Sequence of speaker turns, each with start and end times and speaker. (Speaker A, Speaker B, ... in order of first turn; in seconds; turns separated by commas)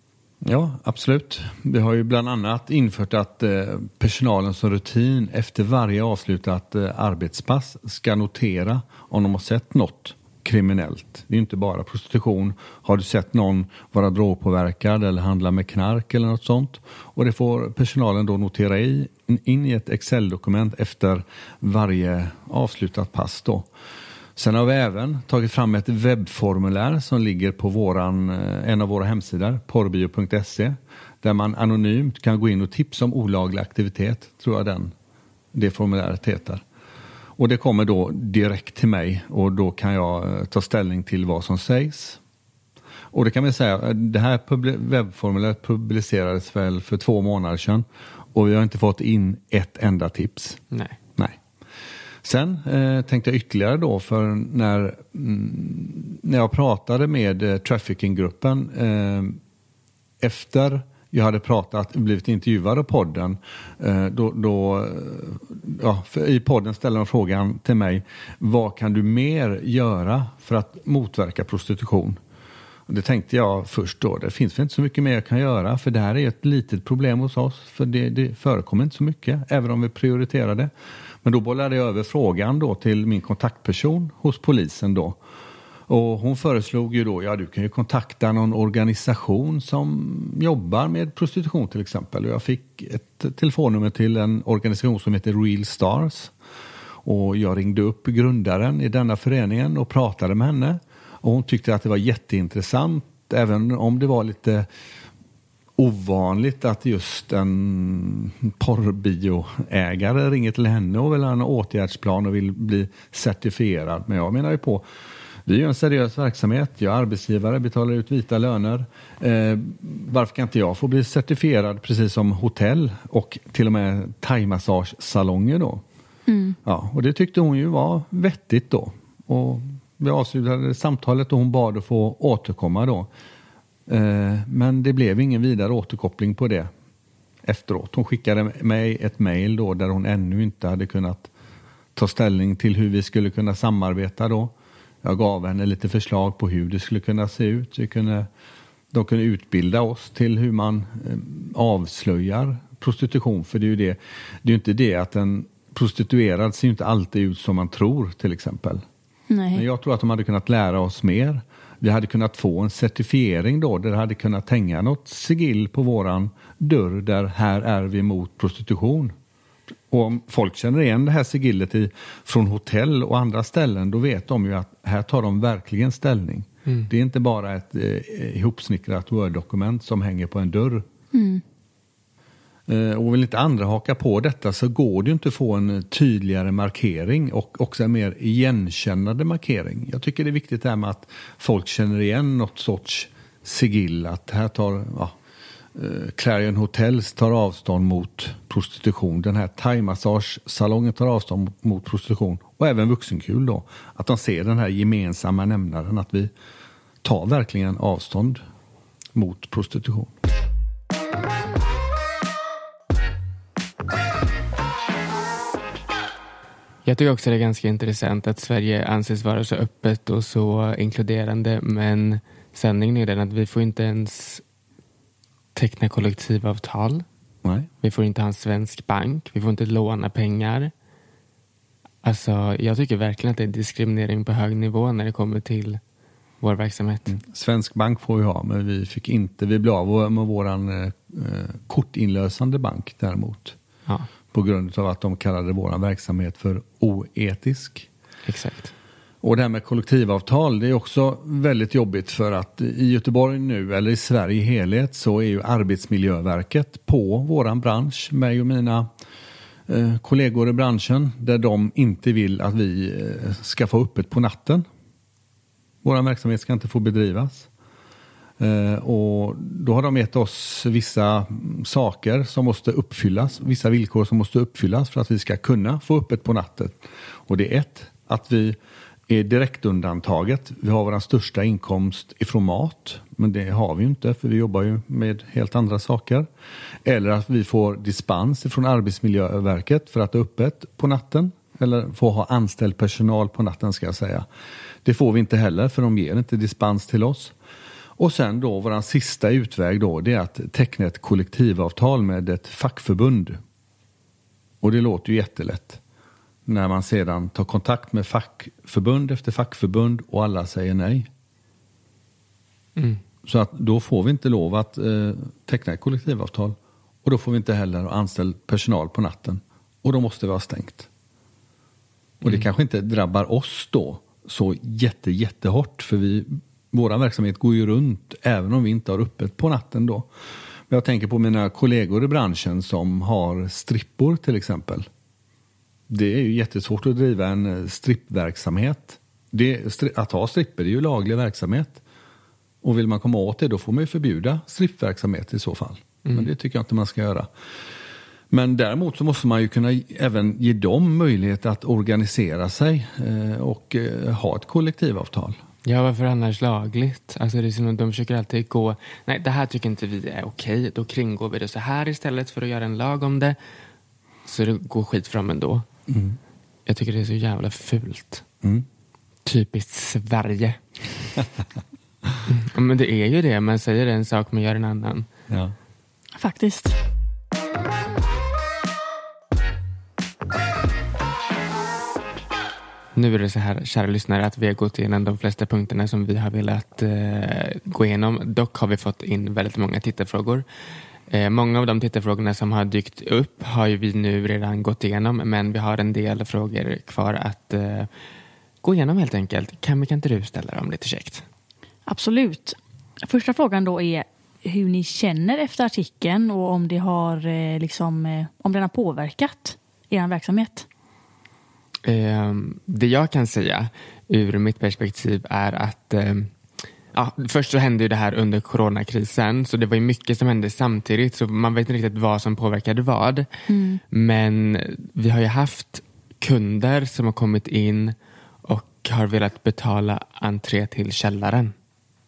Speaker A: 0.4-23.7, Speaker A: 24.4-34.9, Speaker A: 35.5-36.6, Speaker A: 37.4-42.2, Speaker A: 43.1-50.6, Speaker B: 50.7-51.0, Speaker A: 52.2-59.4, Speaker A: 60.2-72.2, Speaker A: 72.9-80.7, Speaker A: 81.2-85.2, Speaker A: 85.9-96.3, Speaker A: 97.0-104.7, Speaker A: 105.8-114.8, Speaker A: 115.5-125.8, Speaker C: 126.3-126.6, Speaker A: 126.6-133.1, Speaker A: 133.9-136.7, Speaker A: 137.4-141.3, Speaker A: 141.9-148.3, Speaker A: 148.9-158.8, Speaker C: 159.3-159.7, Speaker A: 159.5-169.1, Speaker A: 169.9-180.8, Speaker C: 181.1-181.4, Speaker A: 182.7-195.1, Speaker A: 195.7-206.3, Speaker A: 207.0-208.4, Speaker A: 209.1-210.1, Speaker B: 216.8-224.4, Speaker B: 225.5-227.1, Speaker A: 227.4-227.7, Speaker B: 227.8-230.7, Speaker B: 232.0-235.8, Speaker B: 236.4-237.1, Speaker A: 237.1-243.6, Speaker A: 244.3-247.9, Speaker B: 248.2-248.7, Speaker A: 249.2-258.9, Speaker A: 259.7-264.6, Speaker A: 265.8-267.5, Speaker A: 268.4-278.6, Speaker A: 279.1-286.3, Speaker A: 286.9-294.2, Speaker A: 294.8-297.3, Speaker A: 298.0-303.4, Speaker A: 304.6-305.8, Speaker A: 306.5-311.1, Speaker B: 312.8-313.0, Speaker A: 313.2-320.9, Speaker A: 322.2-330.1, Speaker A: 330.7-334.9, Speaker A: 335.9-341.8, Speaker A: 342.6-347.3, Speaker A: 348.3-355.4, Speaker B: 355.6-363.4, Speaker B: 364.2-365.6, Speaker A: 365.9-366.2, Speaker B: 366.6-368.2, Speaker B: 369.2-370.6, Speaker B: 372.3-375.1, Speaker C: 376.2-376.8, Speaker B: 382.9-390.4, Speaker B: 391.1-397.9, Speaker B: 398.6-401.2, Speaker C: 401.9-410.6, Speaker B: 411.8-416.3, Speaker B: 416.9-423.3, Speaker C: 423.5-423.8, Speaker B: 423.9-431.5